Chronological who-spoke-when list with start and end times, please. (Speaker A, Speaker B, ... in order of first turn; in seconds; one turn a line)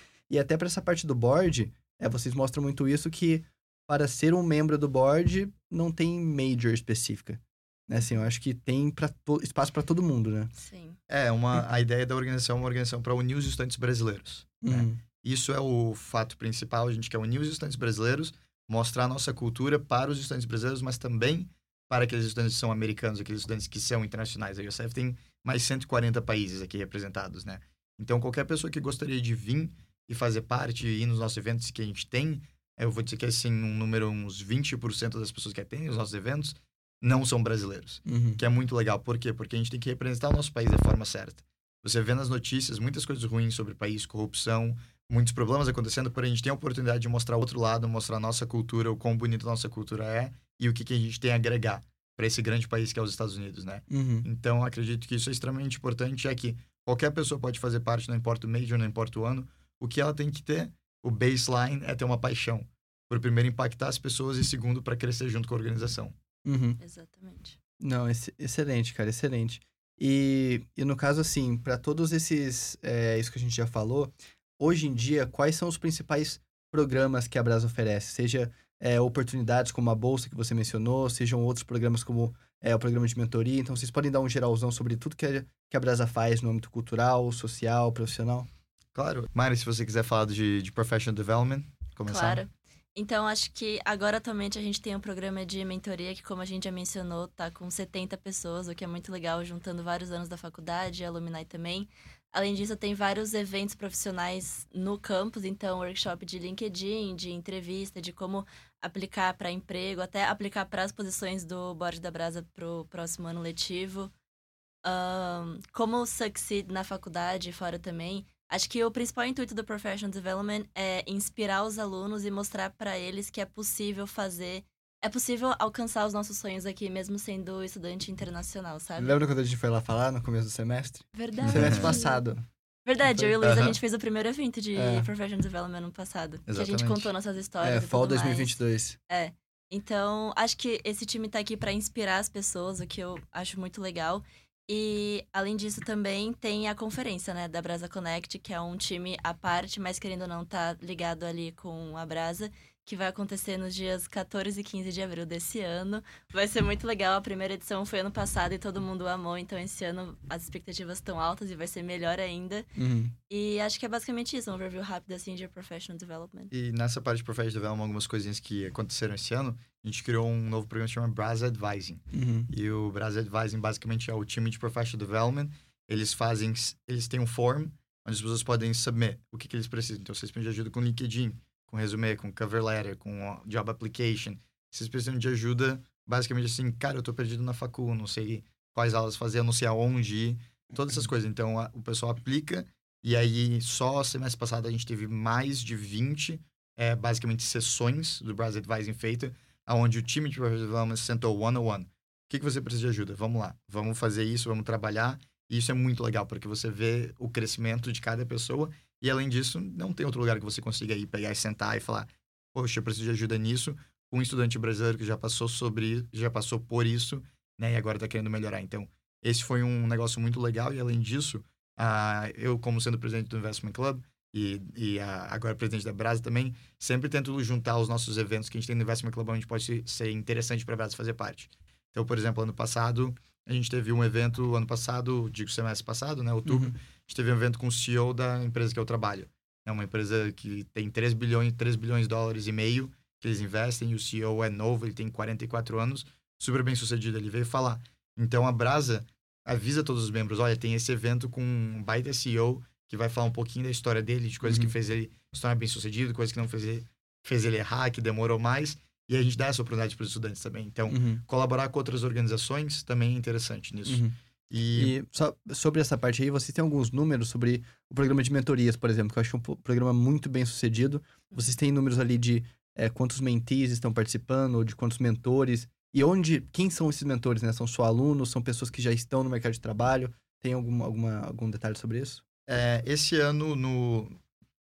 Speaker A: 0.3-10.5
Speaker B: 10.6-11.0
Speaker C: 11.1-66.2
Speaker A: 14.6-15.0
Speaker A: 38.1-38.4
Speaker A: 53.9-54.3
Speaker A: 66.5-66.8
Speaker B: 66.8-67.6
Speaker A: 67.8-88.5
Speaker C: 89.0-92.4
Speaker B: 92.1-114.1
Speaker B: 114.8-129.2
Speaker A: 129.0-132.4
Speaker B: 131.1-132.2
Speaker C: 131.4-131.9
Speaker B: 132.9-138.6
Speaker A: 133.1-133.4
Speaker C: 133.4-133.8
Speaker A: 134.8-135.1
Speaker C: 136.5-137.1
Speaker A: 137.6-139.0
Speaker B: 139.1-162.7
Speaker A: 162.8-163.1
Speaker B: 163.3-166.5
Speaker C: 166.5-265.0
Speaker A: 172.1-172.5
Speaker A: 236.5-236.8
Speaker A: 254.4-254.7
Speaker A: 260.9-261.2
Speaker A: 263.9-264.1
Speaker A: 264.8-282.2
Speaker C: 282.5-284.2